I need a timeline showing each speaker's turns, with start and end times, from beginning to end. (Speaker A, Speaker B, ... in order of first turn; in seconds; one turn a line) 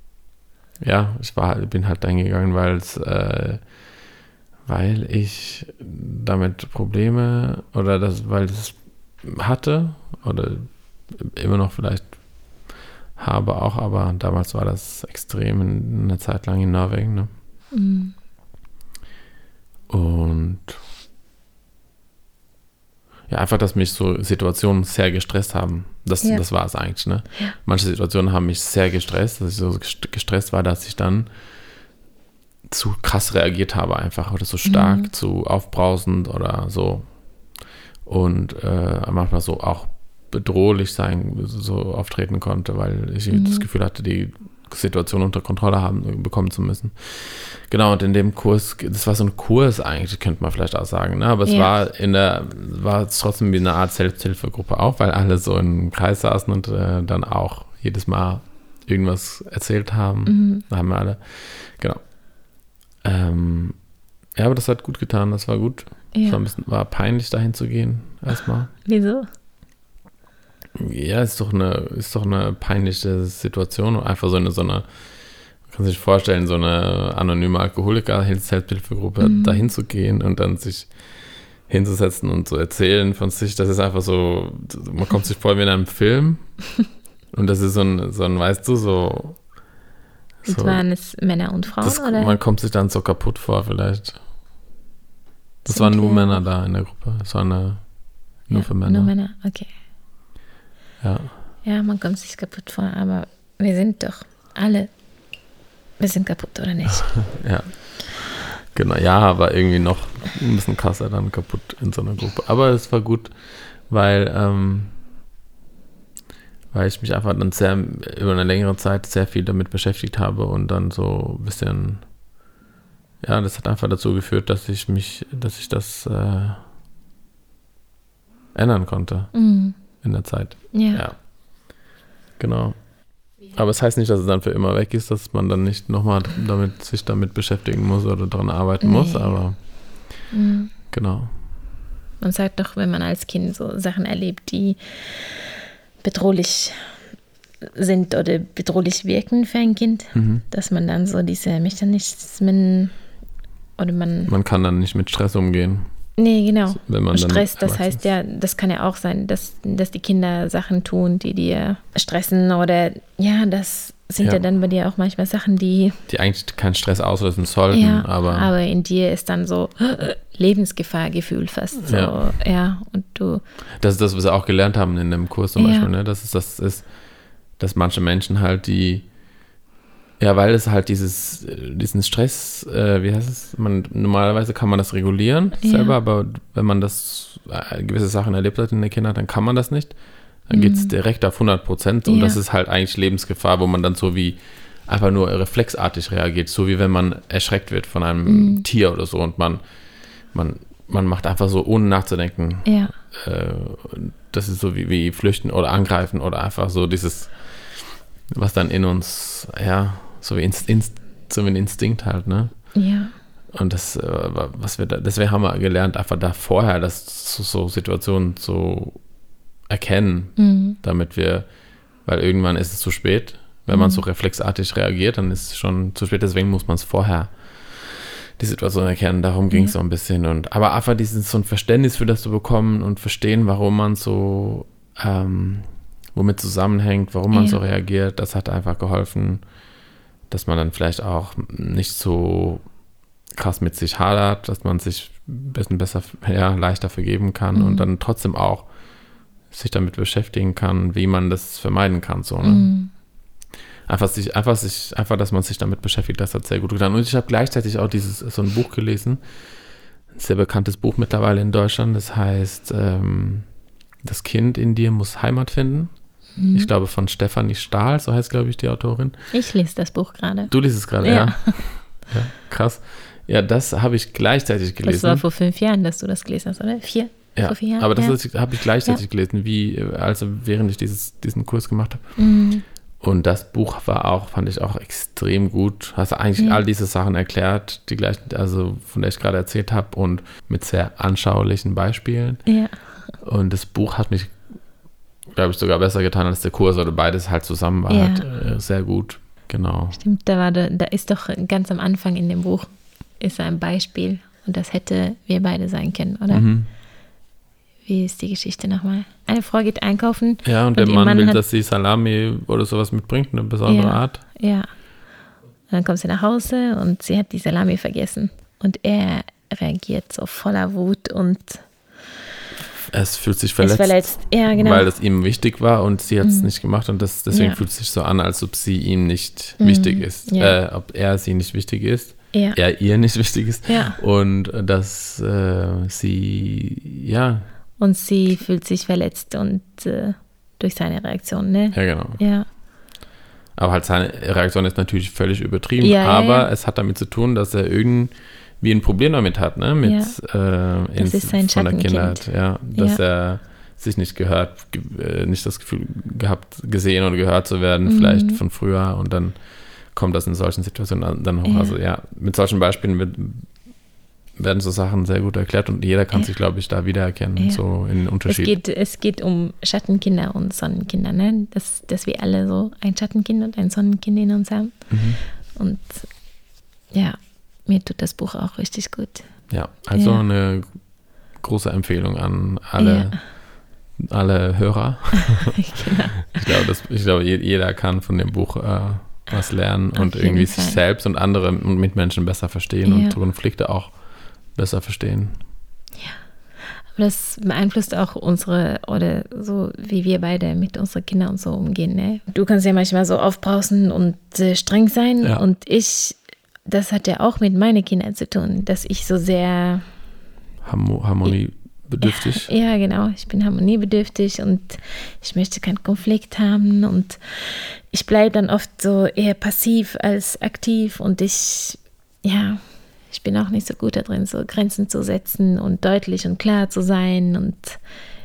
Speaker A: 0.8-3.8
Speaker A: 4.7-12.2
Speaker A: 12.7-17.3
Speaker B: 17.7-18.1
Speaker A: 19.9-20.8
Speaker A: 23.3-31.3
Speaker A: 32.7-37.1
Speaker B: 34.7-35.1
Speaker A: 38.0-62.0
Speaker B: 43.3-43.6
Speaker B: 60.3-60.6
Speaker A: 63.0-63.8
Speaker A: 64.3-68.7
Speaker B: 66.1-66.4
Speaker B: 68.8-69.3
Speaker A: 70.8-74.9
Speaker A: 75.7-80.9
Speaker B: 79.2-79.7
Speaker A: 81.7-86.5
Speaker A: 87.3-89.4
Speaker A: 90.4-90.8
Speaker B: 90.5-92.4
Speaker A: 91.8-94.2
Speaker B: 95.7-96.4
Speaker A: 95.7-99.1
Speaker B: 98.5-99.7
Speaker A: 101.0-101.3
Speaker B: 101.6-104.9
Speaker B: 106.0-107.2
Speaker A: 107.0-115.0
Speaker A: 116.7-122.1
Speaker A: 123.2-126.6
Speaker A: 128.6-129.3
Speaker B: 129.3-129.8
Speaker A: 130.0-131.2
Speaker B: 130.7-131.0
Speaker A: 132.4-132.8
Speaker A: 133.5-139.6
Speaker B: 138.8-139.4
Speaker B: 140.3-140.7
Speaker A: 140.9-141.3
Speaker B: 142.2-145.4
Speaker B: 146.0-146.9
Speaker B: 147.7-152.9
Speaker A: 150.2-150.4
Speaker B: 153.8-154.3
Speaker A: 154.3-155.9
Speaker B: 156.2-166.0
Speaker A: 156.8-158.0
Speaker A: 166.1-168.5
Speaker B: 167.7-173.4
Speaker A: 171.8-172.2
Speaker A: 173.8-176.9
Speaker B: 175.6-175.9
Speaker A: 177.6-179.1
Speaker A: 180.2-190.0
Speaker B: 185.6-185.9
Speaker A: 190.5-199.6
Speaker B: 190.5-190.9
Speaker B: 192.1-192.4
Speaker B: 198.3-198.7
Speaker A: 200.3-212.7
Speaker B: 202.7-202.9
Speaker B: 212.8-213.1
Speaker A: 213.5-219.0
Speaker A: 219.7-221.5
Speaker B: 220.4-220.8
Speaker A: 222.0-239.4
Speaker B: 223.7-224.0
Speaker B: 237.3-237.6
Speaker A: 240.3-242.6
Speaker A: 243.3-248.7
Speaker B: 247.5-247.9
Speaker A: 249.5-252.7
Speaker B: 252.4-252.9
Speaker A: 253.9-259.2
Speaker A: 260.1-263.5
Speaker A: 264.0-265.9
Speaker B: 266.4-266.7
Speaker A: 266.5-269.1
Speaker B: 269.3-271.7
Speaker A: 270.5-275.2
Speaker B: 274.8-278.2
Speaker A: 277.4-282.1
Speaker B: 282.2-282.6
Speaker A: 283.0-292.4
Speaker B: 292.5-292.8
Speaker A: 293.2-294.4
Speaker A: 295.3-300.0
Speaker B: 297.9-298.3
Speaker B: 299.9-306.5
Speaker A: 306.3-306.7
Speaker B: 307.9-311.4
Speaker A: 310.4-314.2
Speaker B: 313.7-314.7
Speaker B: 315.7-321.7
Speaker A: 322.9-337.5
Speaker B: 323.6-324.9
Speaker B: 326.2-326.5
Speaker B: 327.3-327.6
Speaker B: 329.6-330.6
Speaker B: 332.3-332.6
Speaker B: 333.7-334.0
Speaker B: 337.8-342.5
Speaker A: 341.7-342.2
Speaker A: 343.6-363.5
Speaker B: 345.8-346.5
Speaker B: 349.8-350.2
Speaker B: 351.0-353.0
Speaker B: 357.9-358.4
Speaker B: 361.4-361.8
Speaker A: 364.4-368.6
Speaker B: 367.4-367.6
Speaker B: 368.2-375.0
Speaker A: 374.9-375.2
Speaker B: 375.5-376.1
Speaker B: 376.9-379.3
Speaker A: 379.5-380.8
Speaker B: 379.9-380.2
Speaker A: 381.4-383.3
Speaker B: 382.8-383.2
Speaker A: 384.0-394.0
Speaker B: 385.2-386.6
Speaker B: 389.9-390.8
Speaker B: 392.9-393.2
Speaker A: 394.5-395.4
Speaker B: 396.9-409.9
Speaker A: 410.6-412.5
Speaker B: 412.0-427.8